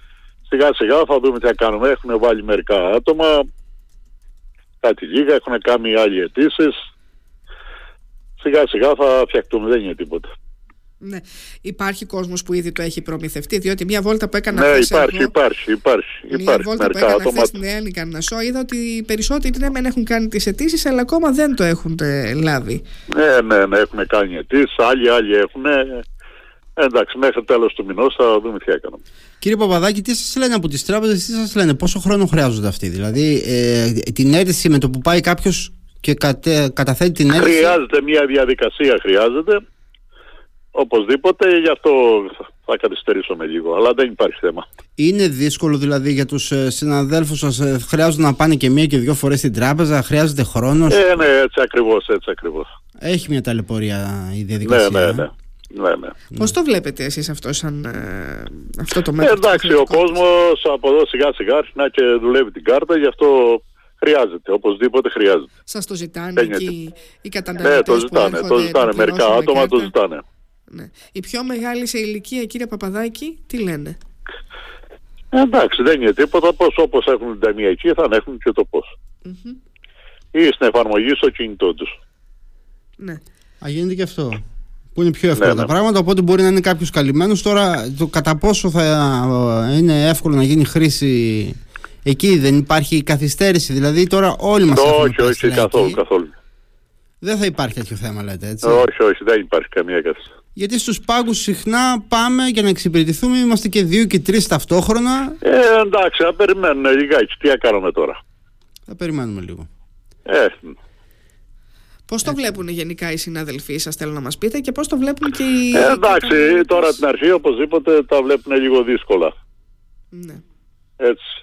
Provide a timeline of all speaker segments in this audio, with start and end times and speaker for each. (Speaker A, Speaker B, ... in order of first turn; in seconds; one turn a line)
Speaker A: 0.5-3.4
Speaker A: 4.8-6.7
Speaker A: 8.4-10.3
Speaker B: 11.0-15.3
Speaker A: 14.5-17.5
Speaker B: 16.3-22.8
Speaker A: 23.1-26.0
Speaker A: 26.8-29.0
Speaker C: 29.4-37.8
Speaker A: 37.4-39.6
Speaker A: 40.7-44.6
Speaker C: 45.0-51.2
Speaker A: 50.9-52.7
Speaker C: 53.0-55.3
Speaker A: 54.6-56.1
Speaker B: 56.3-60.2
Speaker A: 59.2-65.5
Speaker B: 65.7-69.9
Speaker A: 66.4-66.7
Speaker A: 67.6-70.2
Speaker B: 70.7-74.0
Speaker A: 75.3-78.9
Speaker B: 79.2-79.6
Speaker A: 80.3-81.9
Speaker C: 83.6-84.4
Speaker C: 84.9-96.0
Speaker A: 85.4-85.7
Speaker A: 94.7-96.3
Speaker C: 97.2-98.8
Speaker A: 98.6-100.2
Speaker C: 100.5-105.4
Speaker A: 105.4-108.2
Speaker C: 108.9-109.7
Speaker A: 110.2-110.7
Speaker B: 112.1-117.0
Speaker C: 112.2-112.5
Speaker A: 115.7-119.3
Speaker B: 120.1-120.4